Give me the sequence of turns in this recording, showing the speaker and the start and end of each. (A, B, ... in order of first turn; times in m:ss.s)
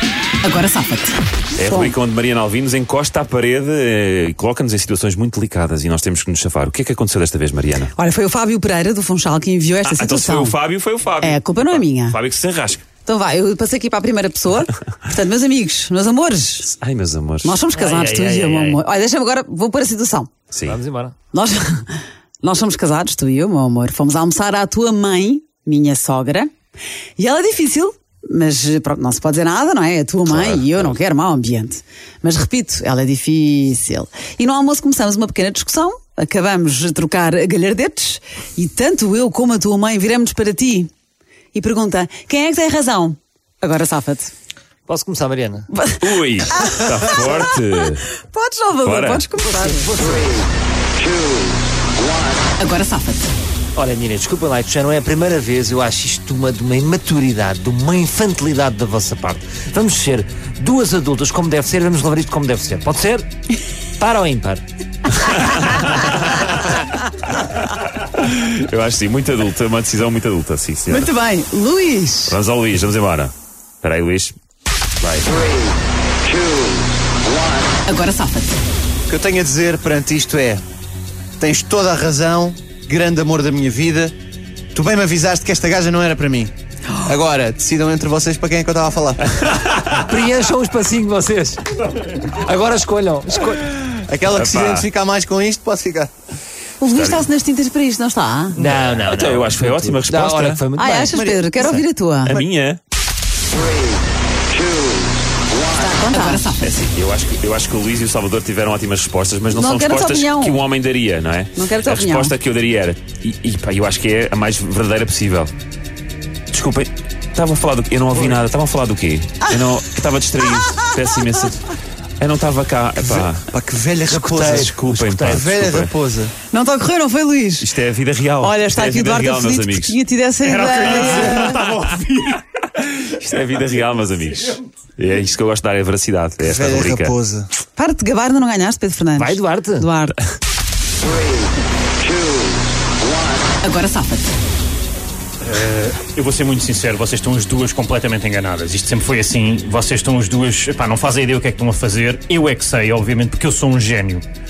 0:00.4-0:01.9 A
0:01.6-0:07.9 B
0:07.9-0:10.6 A
0:09.8-0:12.8 B
0:11.2-0:12.2 A
0:13.0-0:16.7 A
0:16.8-0:17.6 B
0:17.4-0:20.3 A
0:17.7-0:18.8 C
0:20.5-0:20.8 B
0:20.6-0:21.2 C
0:21.3-0:26.5 A
0:27.2-0:40.9 A
0:30.2-0:30.9 B
0:41.5-0:44.3 A
0:44.9-0:45.7 C
0:45.7-0:47.5 A
0:46.0-0:48.0 B
0:48.2-0:49.9 A
0:48.8-0:49.2 B
0:49.4-0:50.5 C
0:52.6-0:53.3 A
0:53.7-1:03.3 C
1:04.0-1:04.6 C
1:05.1-1:06.7 B
1:08.1-1:11.1 B
1:10.9-1:12.4 A
1:12.3-1:14.3 B
1:15.0-1:15.3 B
1:17.8-1:18.6 A
1:19.1-1:20.6 D
1:21.4-1:24.1 D
1:24.7-1:29.2 D
1:29.5-1:29.8 B
1:29.9-1:31.6 C
1:32.2-1:33.7 C
1:34.1-1:36.1 D
1:34.3-1:34.9 B
1:36.8-1:38.6 A
1:36.9-1:37.2 B
1:38.5-1:41.1 C
1:38.7-1:40.6 B
1:40.7-1:42.4 A
1:41.1-1:41.8 D
1:42.2-1:42.8 B
1:45.7-1:46.7 A
1:46.6-1:55.5 B
1:49.5-1:50.6 A
1:51.6-1:52.3 A
1:56.5-2:03.5 B
2:03.0-2:06.3 D
2:04.1-2:05.5 C
2:04.4-2:05.9 B
2:06.5-2:07.7 A
2:07.6-2:10.0 B
2:08.4-2:11.6 A
2:10.4-2:12.4 E
2:12.9-2:17.1 B
2:16.4-2:17.5 D
2:17.8-2:20.2 A
2:19.2-2:19.8 C
2:23.6-2:24.3 A
2:25.4-2:34.2 E